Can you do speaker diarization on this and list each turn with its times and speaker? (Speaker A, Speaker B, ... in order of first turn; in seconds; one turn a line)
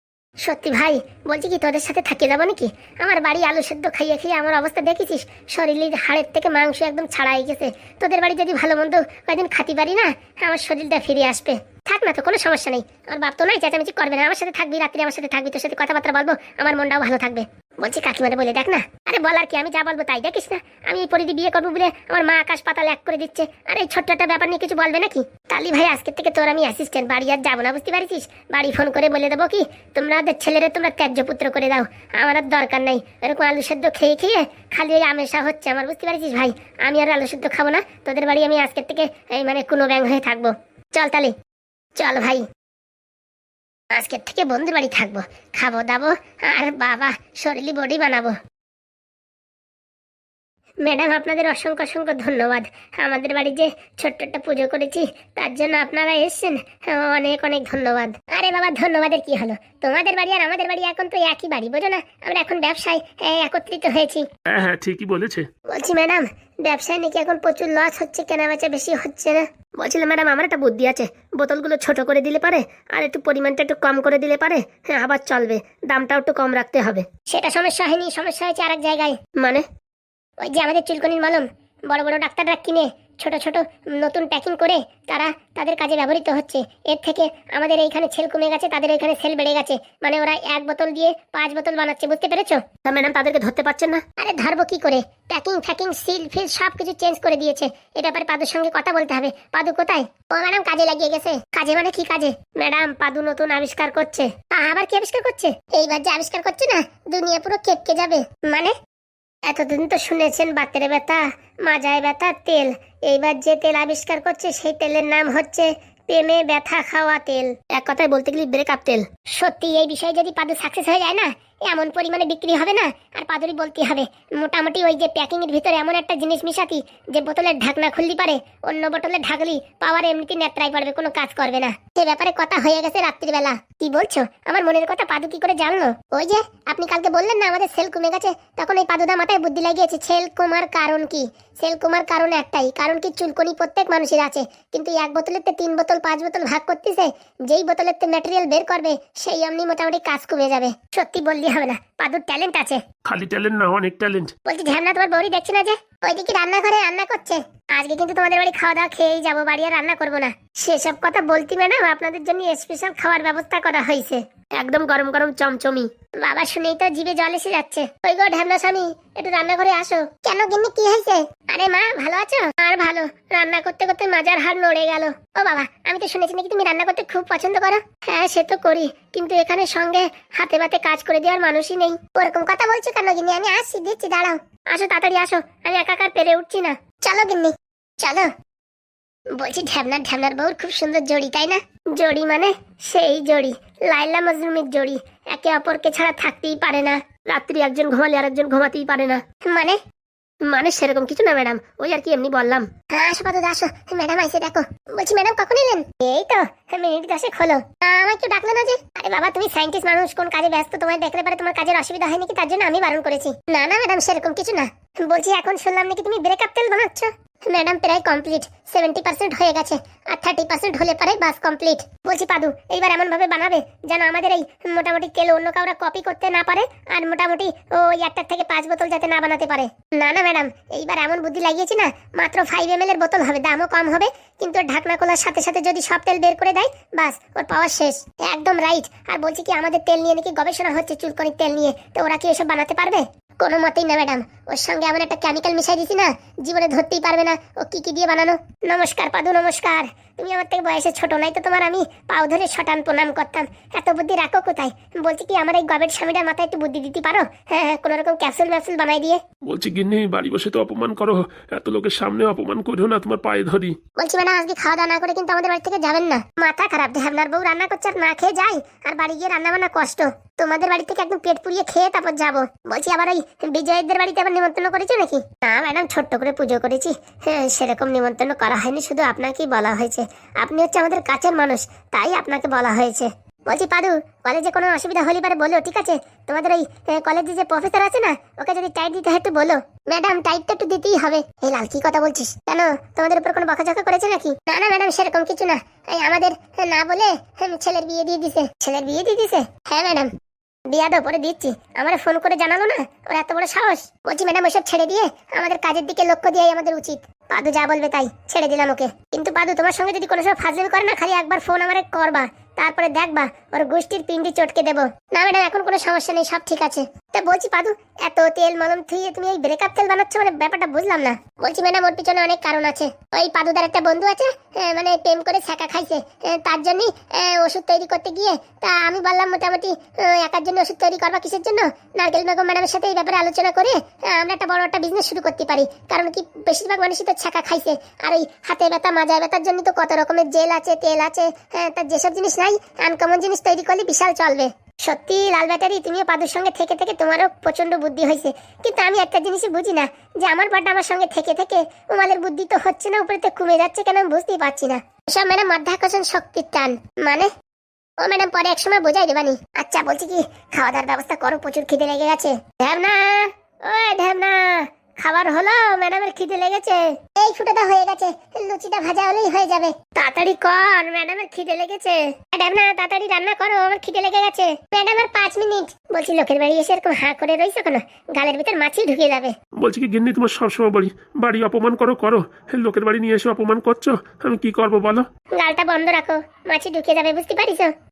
Speaker A: 0.4-41.3
Speaker A: 42.0-42.4
Speaker A: 43.9-48.3
Speaker A: 50.8-64.2
Speaker B: 64.5-65.4
Speaker A: 65.7-69.5
Speaker C: 69.8-77.0
Speaker A: 77.3-79.2
Speaker C: 79.4-79.6
Speaker A: 80.4-92.7
Speaker C: 92.8-94.0
Speaker A: 94.2-108.7
Speaker A: 109.5-117.7
Speaker C: 117.7-119.0
Speaker A: 119.3-152.8
Speaker B: 153.0-154.3
Speaker A: 154.5-164.2
Speaker C: 164.6-165.9
Speaker A: 166.2-188.3
Speaker A: 189.4-197.0
Speaker C: 197.2-199.2
Speaker A: 199.4-199.8
Speaker C: 200.5-202.7
Speaker A: 202.9-259.2
Speaker B: 259.5-263.8
Speaker A: 264.0-300.1
Speaker A: 300.7-357.3
Speaker A: 358.0-379.3
Speaker B: 379.6-385.0
Speaker A: 385.4-387.7